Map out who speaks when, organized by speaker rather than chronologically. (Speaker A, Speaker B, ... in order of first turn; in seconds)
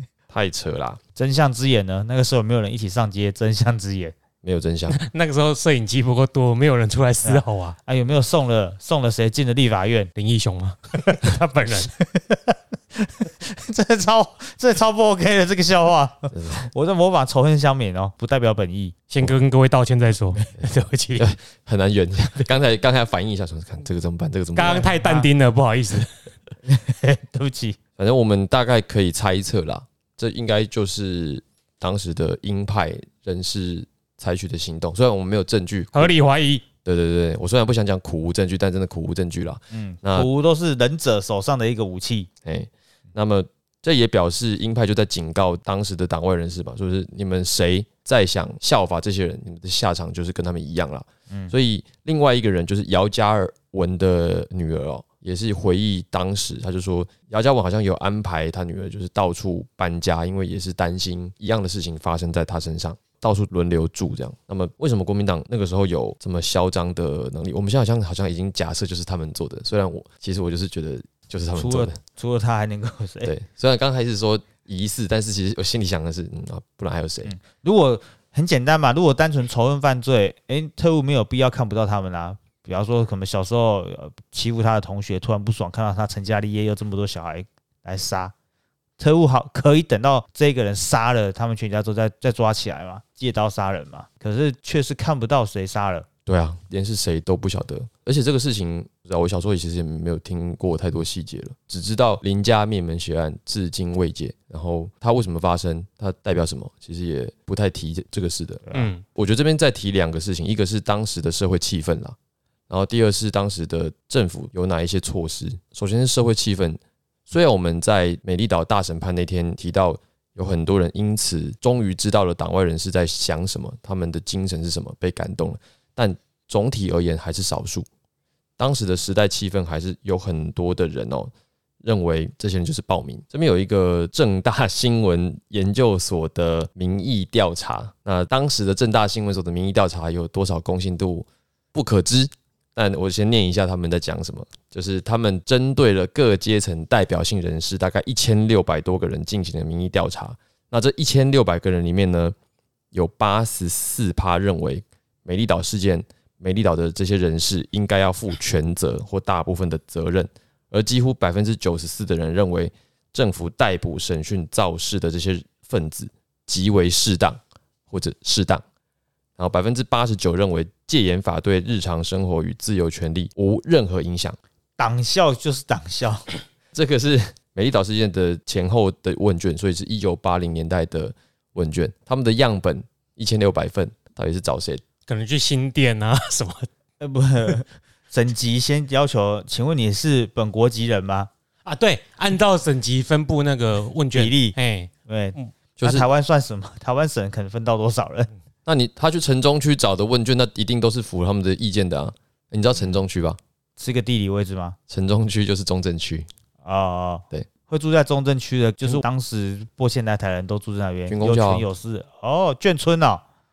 Speaker A: 0.3-1.0, 4.4-5.0, 16.3-16.7, 21.2-24.9, 28.0-36.1, 36.8-40.3, 42.4-72.0, 73.2-77.3, 96.2-112.2, 112.7-127.9, 128.6-131.3, 131.8-152.3, 152.9-168.6, 169.4-174.4, 176.7-184.8, 195.8-196.1, 198.7-203.4, 204.9-206.3, 211.1-211.6
Speaker B: 1.1-4.1, 7.2-10.1, 11.8-19.0, 25.0-25.3, 26.6-27.8, 39.7-42.3, 71.5-73.3, 77.2-88.3, 89.0-96.1, 108.7-108.9, 174.8-176.2, 187.0-191.3, 194.1-194.6, 195.1-198.3, 203.8-204.8, 206.6-213.2
Speaker C: 4.9-7.8, 10.2-11.9, 19.1-21.3, 24.5-26.1, 35.9-36.6, 108.7-109.0, 185.1-186.7, 191.6-195.5